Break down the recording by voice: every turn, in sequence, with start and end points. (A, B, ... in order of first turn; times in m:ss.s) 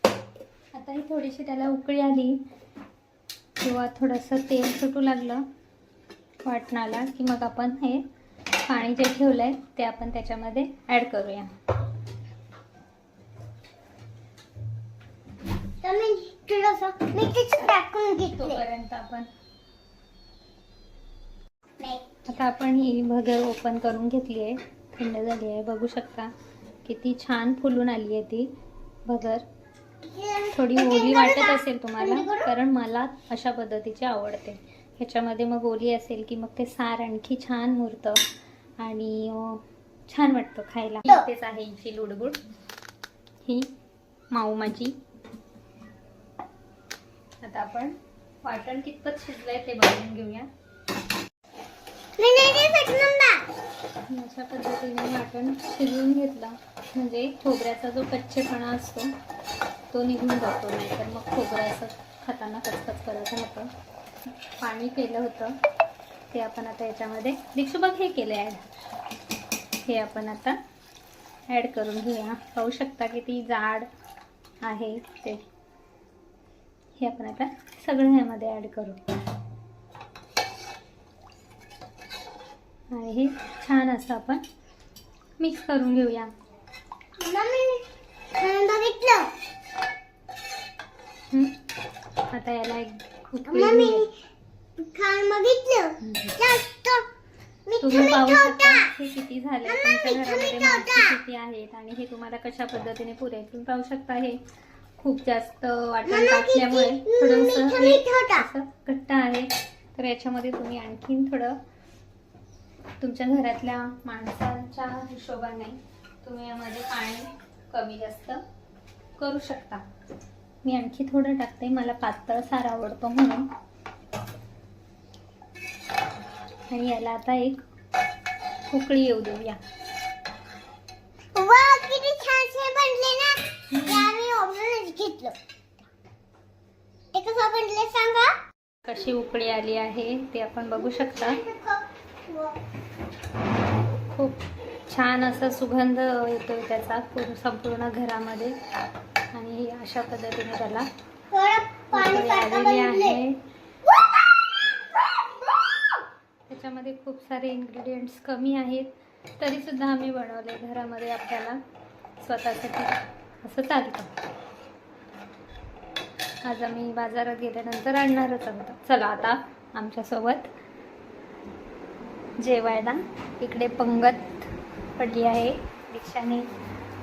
0:00.7-0:02.4 A
0:03.6-0:05.4 A
0:06.4-0:08.0 A
0:08.7-0:11.5 A
0:15.8-0:18.6 B
0:18.4-0:19.3 A
0:21.8-0:22.2 B
0:22.3-0:26.3 A
0:26.8-0:28.5 A
0:29.1-0:29.4 A
0:30.0-0:32.5 B
0:30.5-0:38.2 A
0:38.8-0:42.4 A
0:44.3-0:44.9 A
0:47.4-0:50.5 A
0:52.2-0:53.4 B
0:54.1-0:59.1 A
0:59.9-1:03.7 A
1:04.6-1:05.6 A
1:06.3-1:08.7 A
1:09.9-1:10.6 A
1:11.5-1:13.9 A
1:14.6-1:15.4 A
1:17.0-1:19.0 A
1:22.9-1:24.4 A
1:25.4-1:26.3 A
1:27.2-1:27.8 B
1:28.4-1:29.3 B
1:31.3-1:31.6 A
1:32.3-1:34.0 A
1:33.5-1:34.1 B
1:34.8-1:37.0 B
1:36.0-1:36.3 A
1:37.7-1:38.9 B
1:37.8-1:44.4 A
1:39.6-1:41.2 B
1:45.0-1:51.6 A
1:46.0-1:48.5 B
1:53.0-1:58.4 A
1:59.2-1:59.8 A
2:00.6-2:03.5 A
2:06.7-2:07.6 A
2:08.7-2:09.6 A
2:11.3-2:15.8 B
2:13.7-2:14.1 A
2:17.1-2:18.3 B
2:18.8-2:21.4 A
2:20.7-2:22.6 B
2:24.1-2:28.6 A
2:29.3-2:30.9 A
2:31.3-2:33.2 B
2:31.9-2:33.4 A
2:36.5-2:41.6 A
2:42.2-2:44.1 A
2:46.4-2:50.5 A
2:52.4-2:56.5 A